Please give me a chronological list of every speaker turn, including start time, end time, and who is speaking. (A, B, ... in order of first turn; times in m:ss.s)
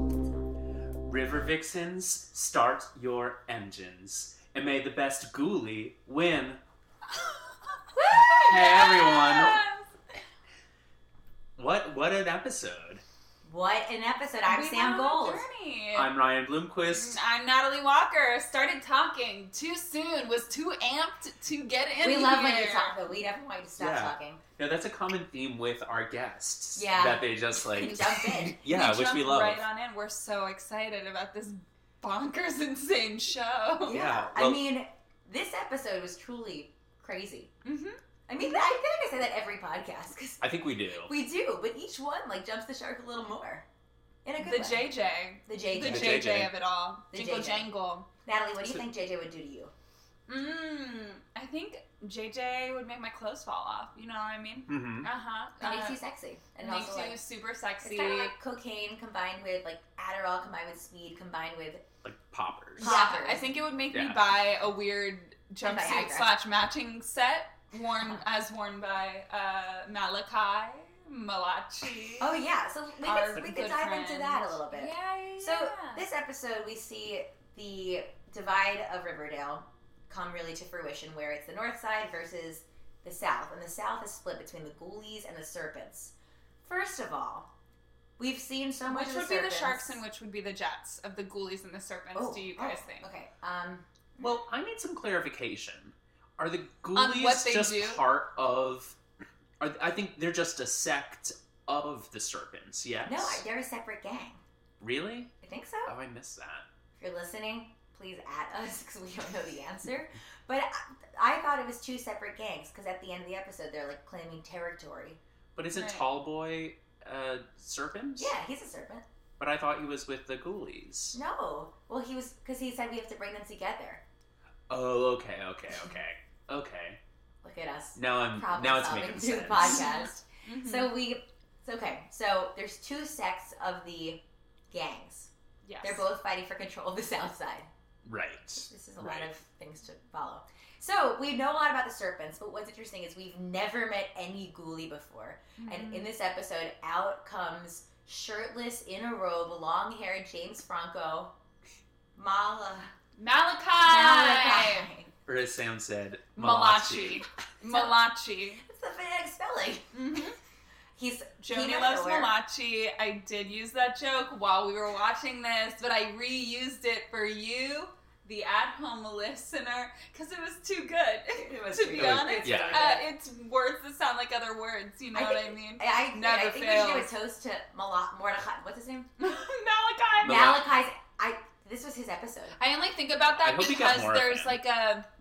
0:01.1-0:06.6 A
0:07.9-0:09.9 B
0:08.1-0:09.6 A
0:11.6-0:13.0 A
0:13.4-0:15.4 C
0:14.5-0:16.1 B
0:16.0-0:17.2 A
0:16.9-0:23.0 B
0:22.0-0:24.4 C
0:23.8-0:29.6 A
0:26.8-0:28.6 C
0:28.6-0:34.0 B
0:33.8-0:37.5 C
0:33.9-0:34.6 A
0:37.6-0:38.7 B
0:38.3-0:43.7 C
0:40.4-0:41.1 A
0:44.2-0:44.9 C
0:44.4-0:48.1 B
0:45.5-0:46.3 C
0:45.8-0:46.5 A
0:47.1-0:47.7 C
0:48.2-0:49.7 C
0:50.3-0:56.0 B
0:54.7-0:55.1 A
0:55.6-0:57.2 C
0:56.6-0:58.3 B
0:57.8-1:01.9 C
1:02.0-1:03.0 A
1:02.8-1:12.4 B
1:02.8-1:03.5 C
1:03.9-1:04.2 A
1:05.6-1:06.3 C
1:12.2-1:27.5 C
1:13.0-1:16.0 B
1:28.2-1:30.0 C
1:28.9-1:33.1 B
1:32.2-1:34.4 C
1:34.2-1:39.0 A
1:37.0-1:38.0 B
1:39.6-1:43.4 A
1:43.0-1:44.4 C
1:44.8-1:46.6 A
1:45.4-1:45.9 C
1:47.0-1:55.2 C
1:55.6-1:58.3 A
1:55.7-1:56.1 B
1:58.2-1:59.0 C
1:59.4-2:01.2 A
2:01.1-2:04.0 C
2:04.7-2:07.0 A
2:07.4-2:17.7 C
2:08.0-2:10.1 A
2:09.6-2:11.0 B
2:15.6-2:16.1 B
2:18.0-2:19.3 A
2:18.6-2:31.3 C
2:25.6-2:26.1 B
2:32.2-2:32.9 C
2:33.2-2:34.9 B
2:33.8-2:35.1 C
2:35.3-2:37.3 A
2:36.4-2:38.6 B
2:37.7-2:38.0 C
2:38.6-2:39.9 C
2:39.9-2:40.4 B
2:41.0-2:42.3 C
2:41.4-2:57.1 B
2:51.4-2:53.1 C
2:51.9-2:53.0 A
2:55.1-2:59.1 C
2:59.2-3:00.5 B
3:00.2-3:02.6 C
3:00.2-3:00.6 A
3:02.6-3:05.1 B
3:03.4-3:04.6 A